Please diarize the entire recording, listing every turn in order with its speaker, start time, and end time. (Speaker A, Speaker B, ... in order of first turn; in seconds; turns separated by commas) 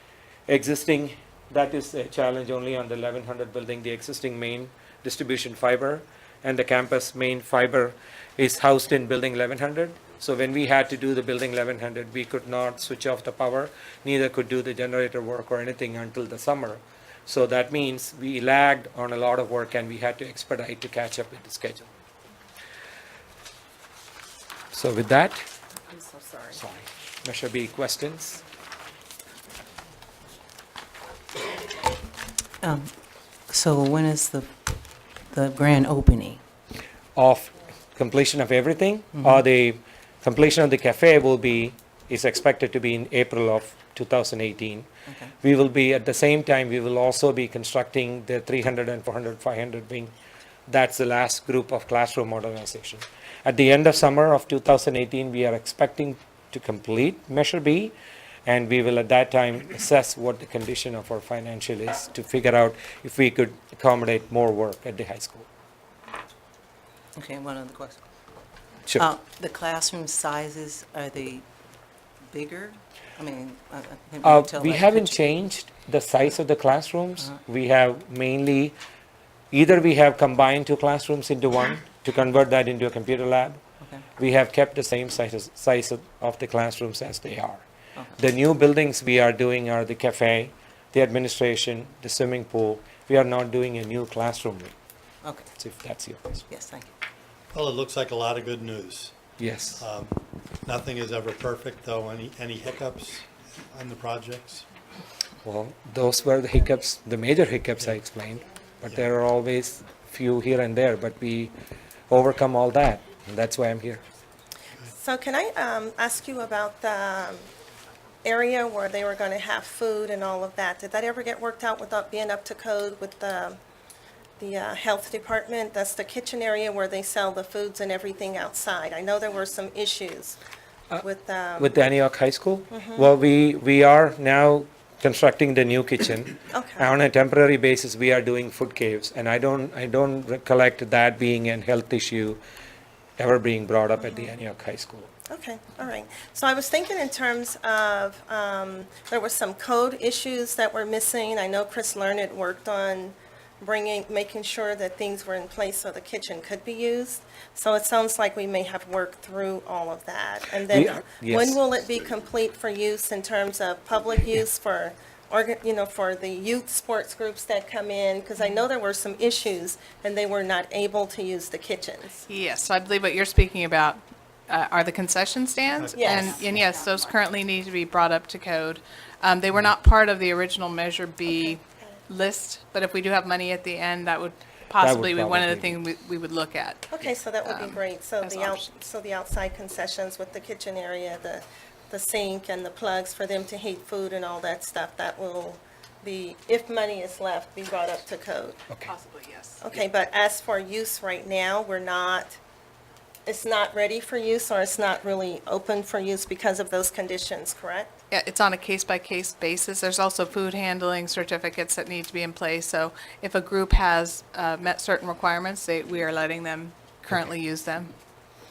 Speaker A: 0.5-21.9, Speaker A: 24.7-25.4, Speaker B: 25.9-26.4, Speaker A: 26.5-28.4, Speaker C: 32.6-32.9, Speaker C: 33.5-34.6, Speaker C: 35.3-36.4, Speaker A: 37.1-44.9, Speaker C: 39.1-39.4, Speaker C: 45.1-45.3, Speaker A: 45.4-50.1, Speaker A: 50.7-57.9, Speaker A: 58.5-65.5, Speaker C: 67.2-68.0, Speaker C: 68.9-71.5, Speaker C: 72.3-75.2, Speaker A: 74.2-78.8, Speaker A: 79.5-83.6, Speaker A: 84.2-87.6, Speaker A: 88.2-94.7, Speaker C: 95.2-95.5, Speaker A: 95.6-96.4, Speaker C: 96.5-96.9, Speaker D: 97.5-99.2, Speaker A: 99.4-99.8, Speaker D: 99.8-104.6, Speaker A: 105.4-111.5, Speaker A: 112.1-114.0, Speaker E: 115.0-117.5, Speaker E: 118.2-123.6, Speaker E: 124.4-130.4, Speaker E: 131.0-131.7, Speaker A: 131.6-142.4, Speaker E: 132.7-133.1, Speaker E: 136.5-136.9, Speaker A: 143.2-145.1, Speaker E: 144.0-144.3, Speaker E: 145.3-172.2, Speaker A: 160.7-161.6, Speaker B: 172.3-188.6, Speaker D: 175.7-176.7, Speaker E: 175.9-176.4, Speaker E: 181.3-182.0, Speaker A: 184.8-185.8, Speaker E: 186.9-198.6, Speaker B: 198.8-199.6, Speaker E: 199.6-202.4, Speaker E: 203.2-207.9, Speaker B: 208.1-217.9